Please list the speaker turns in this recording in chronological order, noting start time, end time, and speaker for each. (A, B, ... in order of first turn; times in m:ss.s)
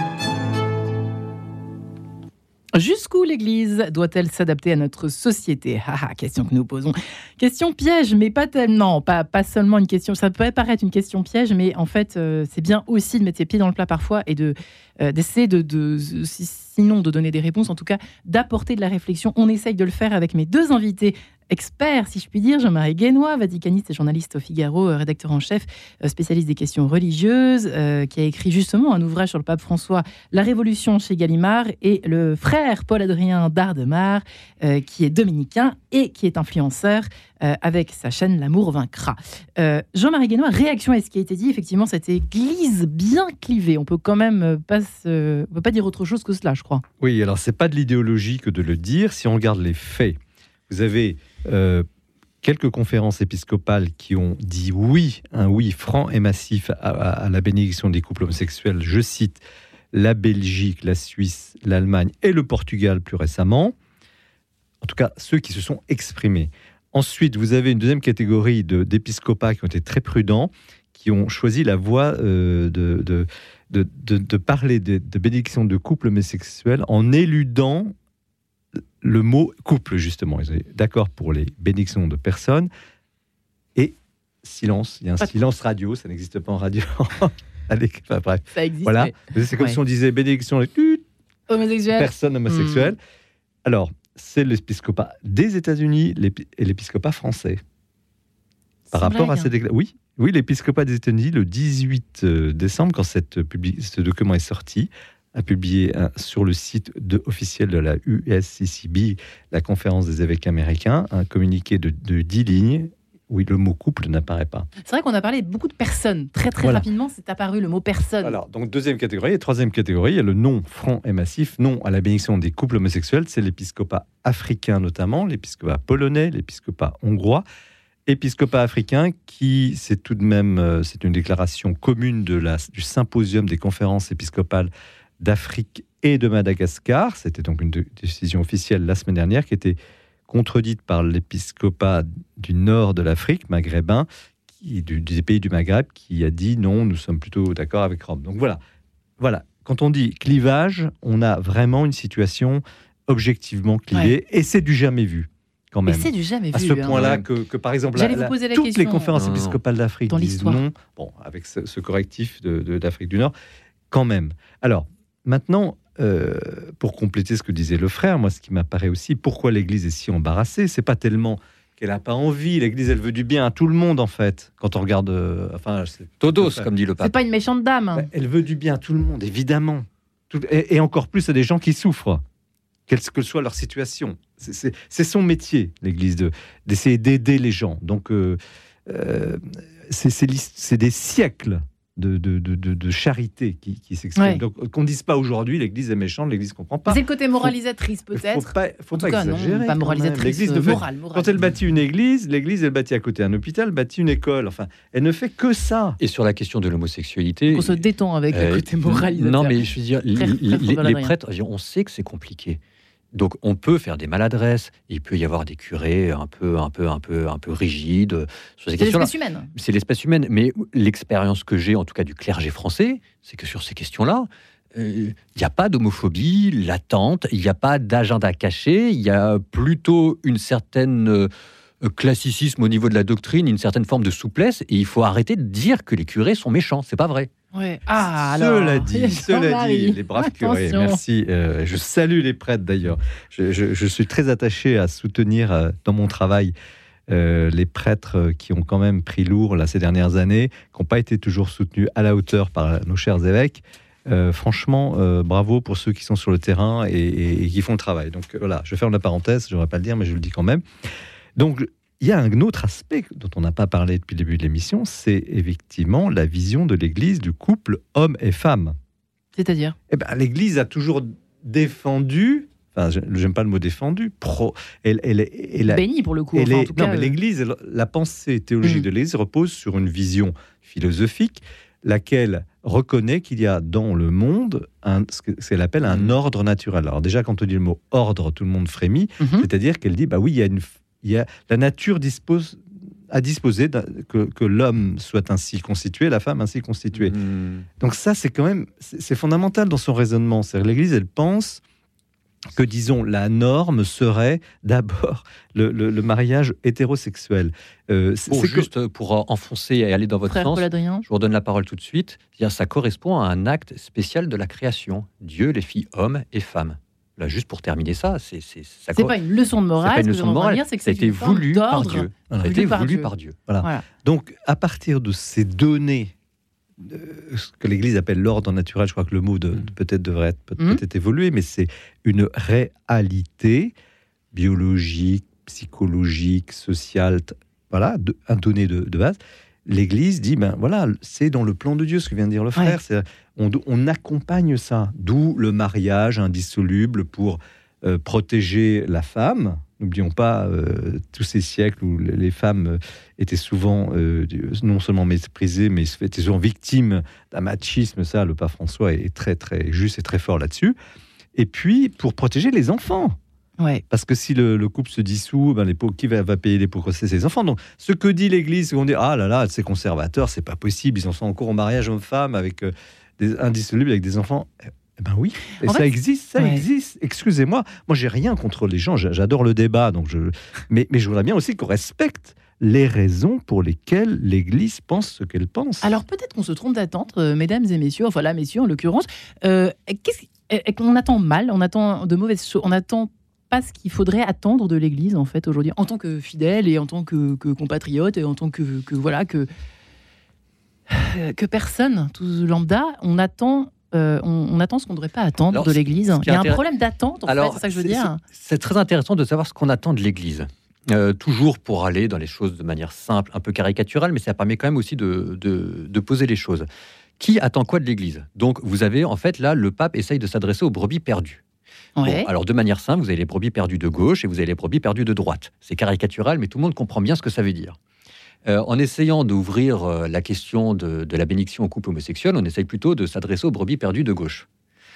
0:02.7-0:46.8 A
0:47.0-0:51.8 B
0:52.4-1:03.8 B
1:04.8-1:17.9 B
1:19.0-1:22.7 B
1:23.8-1:31.0 B
1:28.5-1:29.8 A
1:31.5-1:32.9 A
1:31.9-1:33.0 B
1:33.6-1:37.6 B
1:38.9-1:39.5 A
1:38.9-1:54.7 B
1:54.8-1:58.4 A
1:56.6-1:56.9 B
1:58.2-2:07.4 B
2:08.0-2:19.8 B
2:20.3-2:28.6 B
2:29.2-2:43.3 B
2:35.8-2:37.0 A
2:36.9-2:37.2 C
2:37.9-2:39.1 A
2:39.1-2:39.6 C
2:40.1-2:40.6 A
2:43.9-2:56.7 B
2:56.2-2:57.1 C
2:57.0-2:58.1 A
2:57.9-3:02.2 B
3:02.9-3:17.5 B
3:14.2-3:14.4 A
3:16.9-3:21.3 A
3:18.1-3:26.0 B
3:26.0-3:32.6 C
3:27.5-3:29.6 A
3:30.2-3:31.1 A
3:33.1-3:51.3 C
3:38.8-3:39.5 A
3:51.8-3:57.3 C
3:57.5-4:01.0 A
3:58.0-4:06.5 B
4:07.1-4:20.6 B
4:21.4-4:28.8 B
4:29.3-4:29.8 A
4:29.9-4:35.8 B
4:35.7-4:37.2 A
4:36.3-4:57.2 B
4:45.9-4:46.1 C
4:49.2-4:49.5 A
4:56.9-4:57.7 C
4:57.8-5:01.6 B
5:02.5-5:08.7 B
5:08.3-5:19.1 C
5:10.3-5:11.0 A
5:18.9-5:23.1 A
5:19.8-5:23.4 C
5:23.5-5:26.1 B
5:26.8-5:33.7 B
5:34.3-6:00.8 B
6:01.3-6:03.2 B
6:03.9-6:25.9 B
6:16.4-6:16.6 A
6:25.8-6:39.5 A
6:40.9-6:48.2 A
6:45.5-6:46.6 C
6:47.3-6:56.7 C
6:57.2-7:01.4 C
7:02.0-7:02.3 A
7:02.0-7:07.8 C
7:08.4-7:14.4 C